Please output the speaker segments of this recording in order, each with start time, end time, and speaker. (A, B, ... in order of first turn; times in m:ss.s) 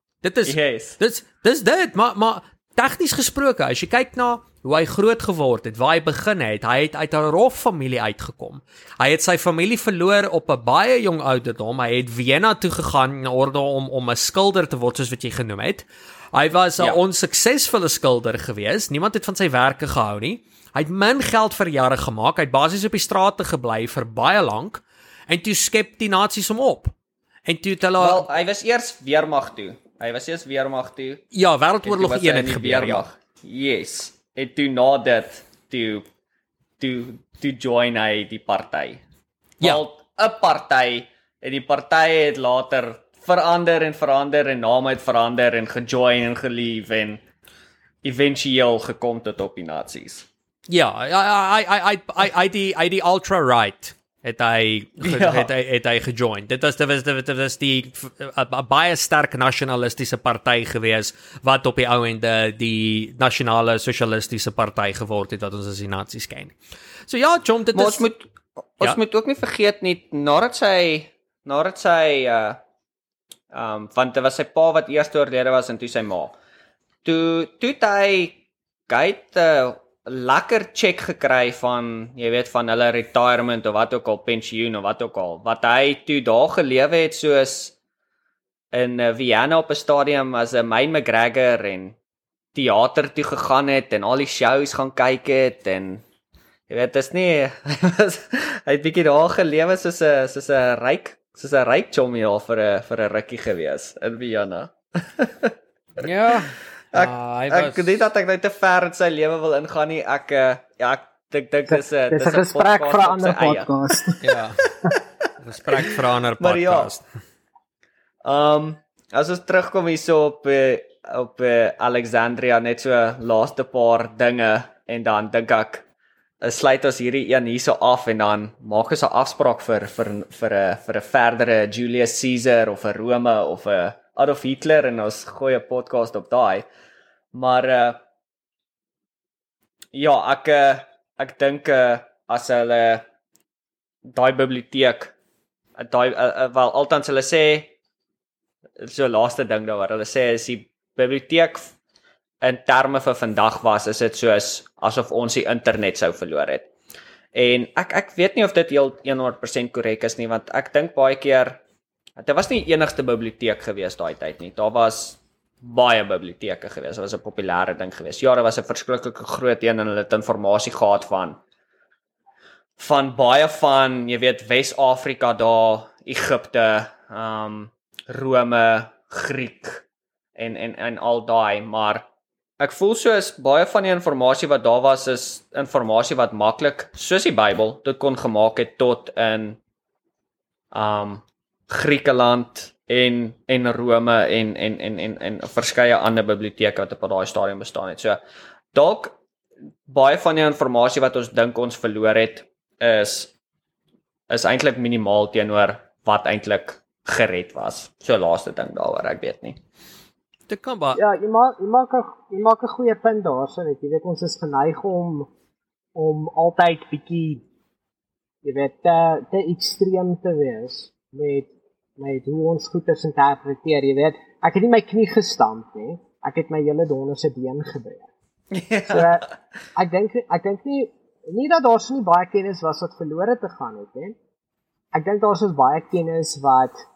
0:00.2-0:26.9 A
0:00.4-0:01.0 B
0:27.5-0:28.2 A
0:28.0-0:31.2 B
0:31.3-0:33.1 A
0:31.8-0:36.0 B
0:36.8-0:39.0 B
0:39.6-0:47.2 B
0:48.0-0:50.3 B
0:50.7-1:06.5 A
0:55.0-0:55.5 B
1:07.1-1:08.0 A
1:07.7-1:12.6 B
1:13.5-1:16.3 B
1:17.0-1:27.7 B
1:28.7-1:31.9 B
1:32.5-1:36.0 B
1:36.7-1:45.5 B
1:46.0-1:48.0 A
1:46.9-1:53.7 B
1:51.7-1:54.2 C
1:54.2-1:54.6 A
1:54.6-1:55.0 B
1:55.4-1:57.0 A
1:55.7-1:56.9 B
1:58.2-2:05.8 B
2:06.4-2:16.6 B
2:17.3-2:18.0 B
2:19.9-2:23.0 B
2:24.1-2:25.1 B
2:25.8-2:27.7 B
2:28.8-2:31.7 B
2:32.4-2:36.7 B
2:37.3-2:41.6 B
2:42.2-2:51.4 B
2:52.8-2:59.8 B
3:00.4-3:02.0 B
3:02.6-3:09.6 B
3:10.7-3:18.2 B
3:18.7-3:19.2 B
3:19.9-3:23.3 B
3:24.3-3:29.6 B
3:30.5-3:31.0 A
3:30.9-3:35.3 C
3:35.9-3:37.4 C
3:38.4-3:48.1 C
3:48.5-3:49.3 B
3:48.9-3:54.2 C
3:54.9-3:56.7 C